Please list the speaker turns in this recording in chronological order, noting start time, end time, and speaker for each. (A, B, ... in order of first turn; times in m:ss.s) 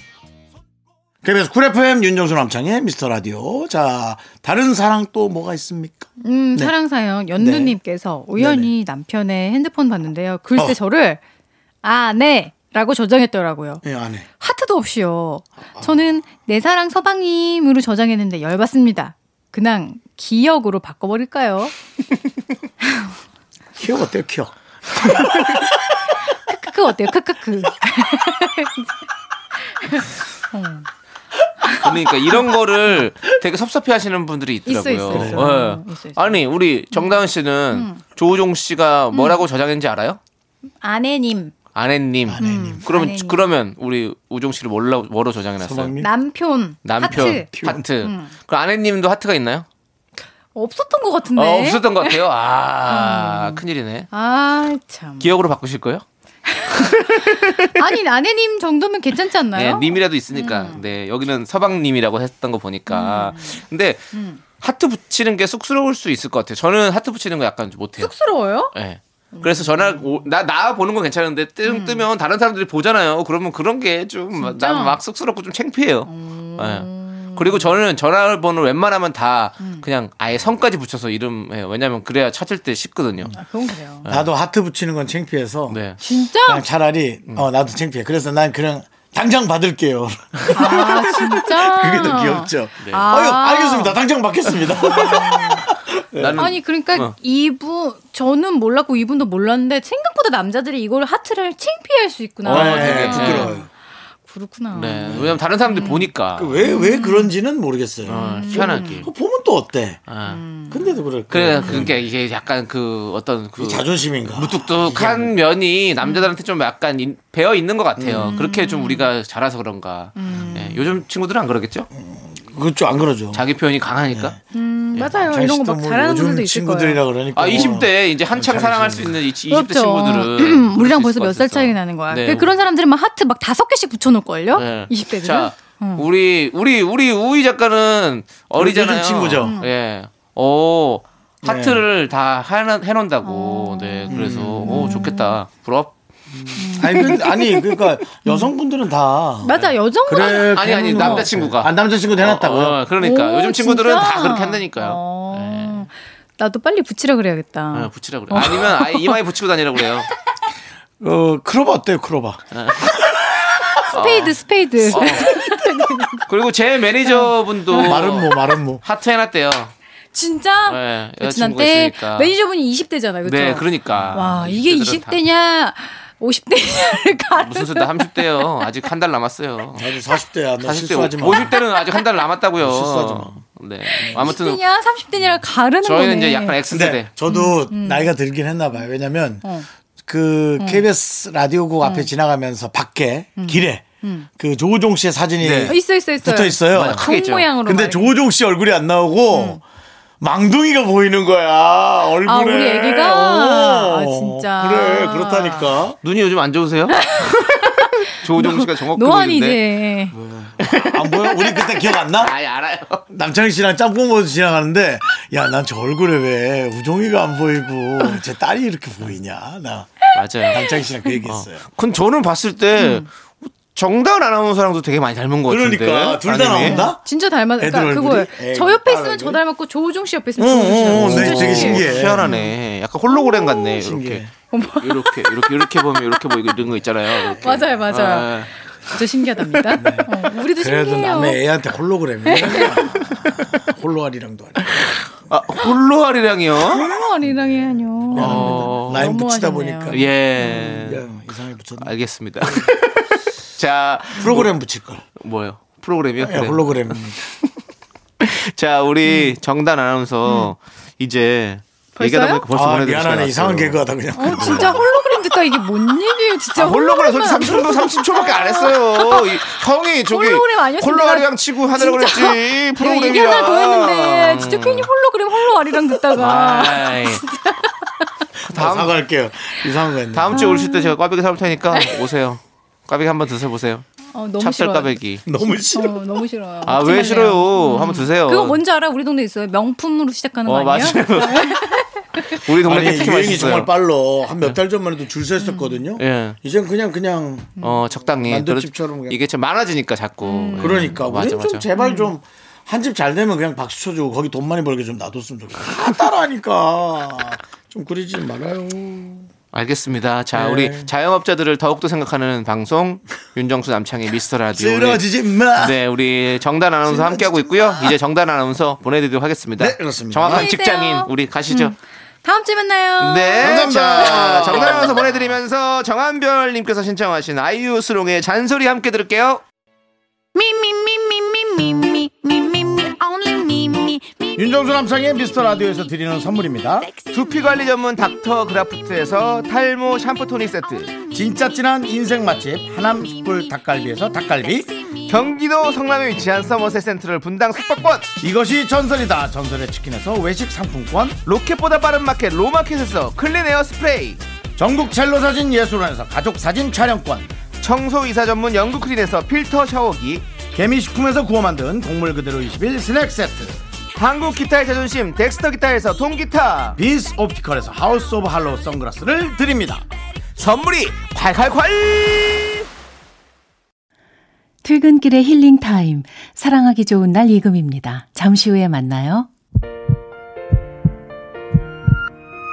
0:01.2-0:06.7 A
0:06.2-0:11.2 B
0:07.4-0:07.8 A
0:08.4-0:08.7 A
0:11.8-0:13.8 B
0:13.8-0:14.3 A
0:14.4-0:21.7 B
0:23.8-0:25.6 A
0:26.5-0:28.9 B
0:29.6-0:30.9 B
0:31.6-0:32.5 B
0:31.8-0:40.2 C
0:34.7-0:38.0 B
0:35.1-0:35.4 A
0:39.1-0:39.4 B
0:40.8-0:41.6 B
0:41.8-0:46.0 C
0:42.3-0:42.8 A
0:42.4-0:43.4 B
0:45.6-0:46.1 A
0:46.0-0:48.3 B
0:46.8-0:49.7 C
0:47.1-0:47.8 A
0:50.6-0:52.2 B
0:51.4-0:54.1 C
0:52.9-0:55.3 B
0:55.2-0:56.0 C
0:56.5-1:00.8 B
0:56.8-0:57.8 C
0:59.5-1:08.1 C
1:02.9-1:03.6 B
1:04.1-1:04.4 B
1:08.0-1:08.7 B
1:08.7-1:23.3 C
1:09.3-1:10.3 B
1:11.6-1:12.1 B
1:14.4-1:15.0 B
1:16.1-1:17.7 B
1:23.3-1:24.1 B
1:24.0-1:24.3 C
1:24.1-1:25.8 A
1:25.7-1:26.0 C
1:26.0-1:26.6 B
1:26.4-1:36.4 A
1:30.5-1:34.0 B
1:34.8-1:35.6 B
1:36.2-1:37.1 C
1:36.4-1:43.7 B
1:42.5-1:43.5 C
1:42.5-1:43.7 A
1:44.2-1:46.1 B
1:44.7-1:46.6 C
1:45.1-1:45.4 A
1:46.3-1:50.1 A
1:46.6-1:47.3 B
1:48.1-1:49.1 C
1:48.1-1:49.1 B
1:50.1-1:50.4 C
1:50.2-1:51.0 B
1:50.7-1:52.0 A
1:51.3-2:01.9 C
1:51.5-1:51.9 B
1:53.6-1:55.4 A
1:56.0-1:56.3 B
1:58.0-1:58.3 A
1:58.2-1:59.1 B
2:00.2-2:00.8 B
2:02.0-2:03.4 A
2:03.3-2:04.4 C
2:04.1-2:04.4 A
2:04.5-2:07.0 B
2:05.1-2:09.2 A
2:07.4-2:12.5 C
2:09.5-2:16.1 B
2:14.5-2:25.9 C
2:18.6-2:19.6 A
2:19.4-2:19.7 B
2:21.4-2:21.8 A
2:23.2-2:25.4 B
2:24.1-2:25.1 A
2:26.6-2:27.7 B
2:26.8-2:29.5 A
2:26.8-2:27.1 C
2:29.4-2:31.3 B
2:29.6-2:35.9 C
2:30.0-2:32.8 A
2:33.0-2:39.2 B
2:37.7-2:40.1 C
2:41.0-2:43.8 A
2:42.5-2:43.0 C
2:43.8-2:46.3 B
2:43.9-2:45.4 C
2:46.3-2:49.7 C
2:47.0-2:47.9 B
2:47.8-2:48.8 A
2:50.1-2:58.7 B
2:50.7-2:52.3 C
2:53.2-2:55.2 C
2:57.4-2:59.9 C
2:59.8-3:01.5 A
3:00.6-3:04.6 C
3:01.5-3:02.0 B
3:02.6-3:03.4 A
3:03.9-3:06.6 B
3:04.0-3:04.4 A
3:05.8-3:07.1 C
3:06.7-3:09.4 A
3:07.3-3:08.1 B
3:10.1-3:13.8 A
3:10.6-3:10.8 B
3:11.8-3:12.1 B
3:13.4-3:14.3 B
3:14.4-3:17.1 A
3:15.4-3:15.8 C
3:15.7-3:18.2 B
3:16.7-3:17.5 C
3:17.6-3:19.6 A
3:19.3-3:19.6 B
3:20.2-3:26.0 A
3:22.3-3:25.7 B
3:26.0-3:29.6 C
3:27.0-3:30.1 B
3:30.1-3:32.3 A
3:30.6-3:30.9 C
3:31.1-3:32.0 B
3:32.2-3:33.0 C
3:33.1-3:41.6 A
3:40.2-3:40.6 C
3:40.5-3:40.8 B
3:41.3-3:46.9 C
3:42.8-3:43.1 B
3:45.5-3:47.0 A
3:46.6-3:52.5 B
3:47.6-3:49.4 A
3:50.4-3:52.3 A
3:50.9-3:54.2 C
3:53.1-3:53.8 B
3:53.8-3:54.3 A
3:54.5-3:55.6 B
3:54.8-4:00.0 C
3:57.1-4:01.4 B
3:59.8-4:05.0 A
4:02.3-4:03.2 B
4:05.3-4:06.9 C
4:06.6-4:10.8 B
4:07.2-4:11.9 A
4:08.1-4:09.1 C
4:09.9-4:11.0 C
4:11.8-4:14.5 C
4:14.2-4:15.0 A
4:15.2-4:17.0 C
4:16.2-4:17.2 A
4:18.2-4:23.8 C
4:19.0-4:19.4 B
4:20.2-4:20.5 B
4:22.0-4:22.4 B
4:22.5-4:24.9 A
4:24.2-4:29.6 B
4:26.6-4:34.9 C
4:30.1-4:38.1 B
4:36.1-4:37.2 C
4:38.5-4:39.0 C
4:38.5-4:40.6 A
4:40.1-4:43.8 C
4:40.3-4:40.9 B
4:41.7-4:42.1 B
4:44.1-4:44.9 B
4:44.4-4:45.2 C
4:45.3-4:46.0 A
4:45.7-4:52.5 B
4:46.6-4:48.6 C
4:50.5-4:51.7 C
4:52.3-4:53.7 C
4:52.6-4:57.7 A
4:55.4-4:55.8 B
4:56.0-4:56.4 C
4:57.6-5:01.7 C
4:58.2-4:59.2 A
5:00.2-5:01.0 B
5:00.6-5:09.3 A
5:01.8-5:02.1 B
5:09.5-5:15.0 C
5:10.3-5:10.9 A
5:14.5-5:15.8 A
5:15.6-5:21.8 C
5:19.6-5:20.5 A
5:20.3-5:23.8 B
5:23.0-5:29.4 C
5:23.4-5:25.2 A
5:34.4-5:37.0 A
5:37.0-5:41.0 C
5:41.1-5:44.9 A
5:45.1-5:48.1 C
5:48.2-5:51.2 A
5:51.3-5:54.2 C
5:54.6-5:57.3 A
5:57.6-6:00.3 C
6:00.5-6:03.6 A
6:04.0-6:06.8 C
6:06.8-6:09.8 A
6:10.4-6:12.7 C
6:14.6-6:19.3 D